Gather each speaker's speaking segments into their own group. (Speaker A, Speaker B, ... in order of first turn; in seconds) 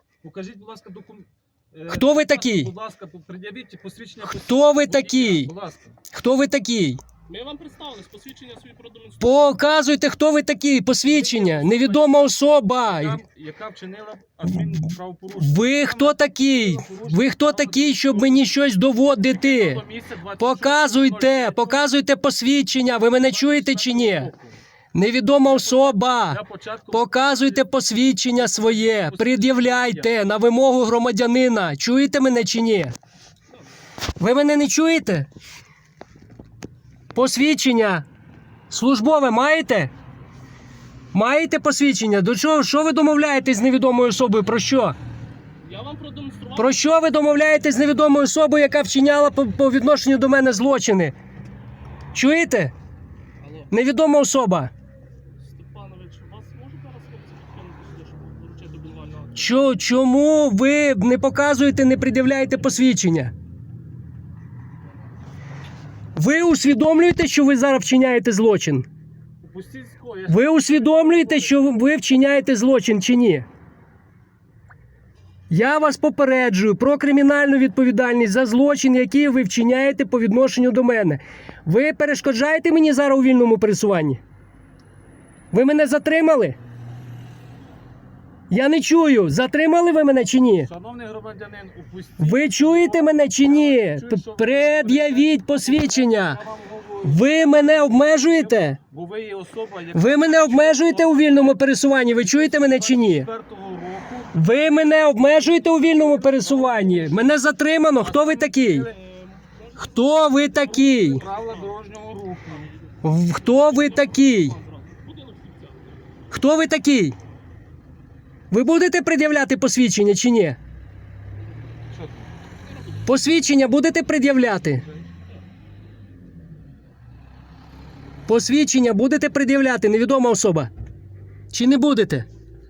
Speaker A: 0.2-6.0, 11.1-12.2, 12.8-18.5, 19.3-21.9, 23.2-24.6, 25.4-27.6, 28.3-30.2, 69.4-71.6, 90.6-101.6, 102.2-104.7, 105.8-107.4, 108.0-109.0, 110.6-112.7, 121.9-122.3
Speaker B: 1.9-2.7, 4.3-5.5, 6.1-7.0, 9.2-13.2, 15.4-19.8, 20.4-24.3, 24.9-33.0, 34.2-35.3, 37.1-38.0, 38.7-39.9, 41.1-45.0, 46.6-51.1, 52.1-52.7, 53.7-54.7, 59.4-63.3, 66.2-68.9, 70.3-73.5, 75.5-84.2, 85.5-86.6, 88.5-90.7, 92.2-96.4, 97.0-98.8, 99.9-103.3, 104.3-108.9, 109.8-111.2, 113.0-114.6, 116.3-117.2, 118.5-120.6, 123.1-124.8, 128.3-130.7, 131.5-132.3
Speaker C: 7.3-9.5, 45.6-47.0, 53.4-53.7, 55.4-59.6, 108.9-111.8, 112.5-116.0, 122.8-123.0